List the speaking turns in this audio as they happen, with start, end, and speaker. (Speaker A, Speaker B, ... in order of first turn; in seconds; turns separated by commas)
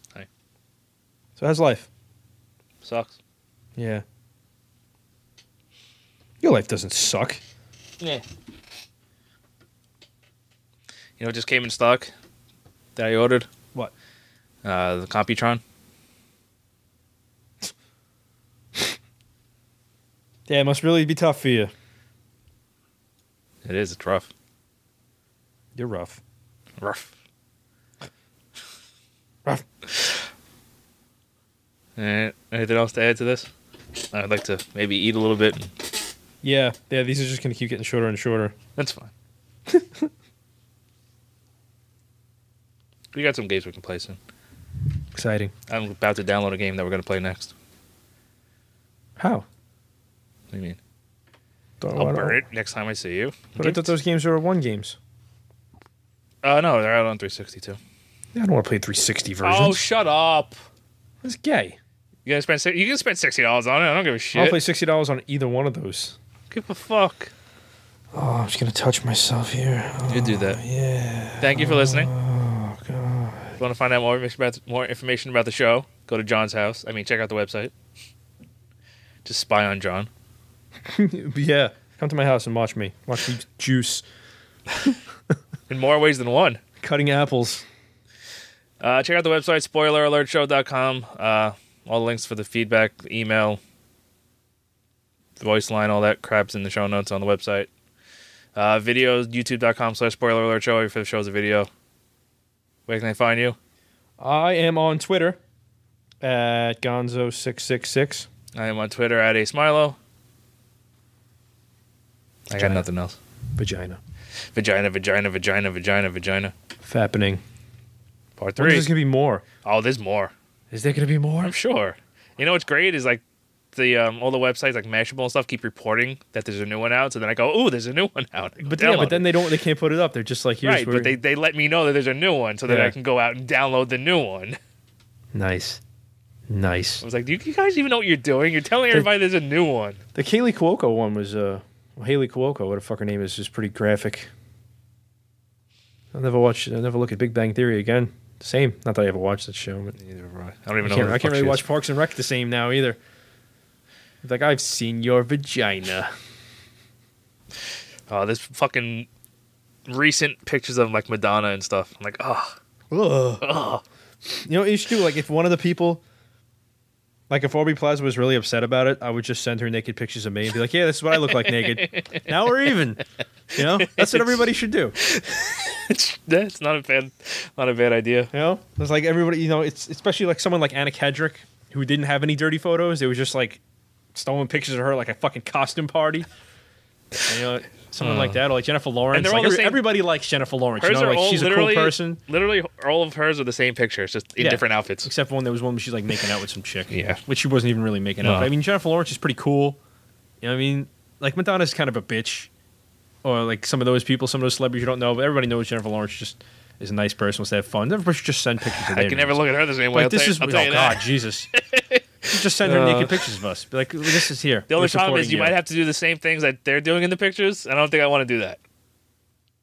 Speaker A: 1.4-1.9, Speaker B: 2.8-3.2, Speaker A: 3.8-4.0, Speaker A: 6.4-7.4, Speaker B: 11.2-12.1, Speaker B: 12.9-13.5, Speaker B: 14.6-15.6, Speaker A: 20.5-21.7, Speaker B: 23.6-24.3, Speaker A: 25.8-26.2, Speaker B: 26.8-27.1, Speaker B: 32.0-33.5, Speaker B: 34.1-35.7, Speaker A: 36.4-38.5, Speaker B: 38.8-39.1, Speaker A: 39.7-40.1, Speaker B: 43.1-44.2, Speaker A: 45.1-45.5, Speaker B: 45.7-47.5, Speaker A: 49.2-49.5, Speaker B: 50.5-50.8, Speaker A: 51.8-52.4, Speaker B: 52.0-53.9, Speaker A: 53.6-55.0, Speaker B: 56.4-57.8, Speaker A: 58.3-59.8, Speaker B: 59.4-60.5, Speaker A: 61.2-61.8, Speaker B: 62.2-64.6, Speaker A: 64.3-66.2, Speaker B: 66.5-67.3, Speaker A: 68.1-73.6, Speaker B: 70.0-70.6, Speaker B: 71.4-72.1, Speaker B: 73.6-77.7, Speaker B: 79.2-80.1, Speaker A: 80.8-84.0, Speaker B: 85.7-86.6, Speaker A: 86.8-87.6, Speaker B: 88.8-93.6, Speaker B: 95.4-97.7, Speaker B: 98.5-101.7, Speaker B: 102.9-103.6, Speaker A: 104.2-105.4, Speaker A: 106.2-108.3, Speaker B: 108.5-110.0, Speaker B: 112.5-113.2, Speaker A: 112.5-112.8, Speaker A: 113.5-114.0, Speaker B: 114.5-116.5, Speaker A: 116.8-117.4, Speaker B: 118.4-118.9, Speaker A: 118.6-119.4, Speaker B: 119.6-120.3, Speaker A: 120.7-121.5, Speaker B: 121.4-123.2, Speaker B: 123.7-129.3, Speaker A: 128.6-131.1, Speaker B: 130.6-134.6, Speaker A: 132.7-132.9, Speaker A: 135.3-135.8, Speaker A: 136.5-137.0, Speaker B: 137.0-140.0, Speaker A: 140.1-144.3, Speaker A: 146.1-150.0, Speaker B: 150.0-151.7, Speaker A: 150.8-153.0, Speaker A: 154.2-156.1, Speaker B: 158.1-159.1, Speaker B: 159.9-162.6, Speaker A: 162.9-163.5, Speaker B: 163.4-163.8, Speaker A: 164.2-166.0, Speaker A: 167.3-175.0, Speaker B: 171.5-172.3, Speaker B: 173.6-178.3, Speaker A: 178.3-183.6, Speaker A: 184.1-186.3, Speaker A: 187.2-192.2, Speaker B: 188.0-188.4, Speaker B: 189.1-189.8, Speaker B: 190.8-195.1, Speaker A: 194.4-199.8, Speaker B: 196.9-197.2, Speaker B: 198.2-198.5, Speaker A: 200.4-202.5, Speaker A: 203.2-209.4, Speaker B: 208.8-213.4, Speaker A: 209.9-211.5, Speaker A: 212.3-215.6, Speaker B: 214.7-218.6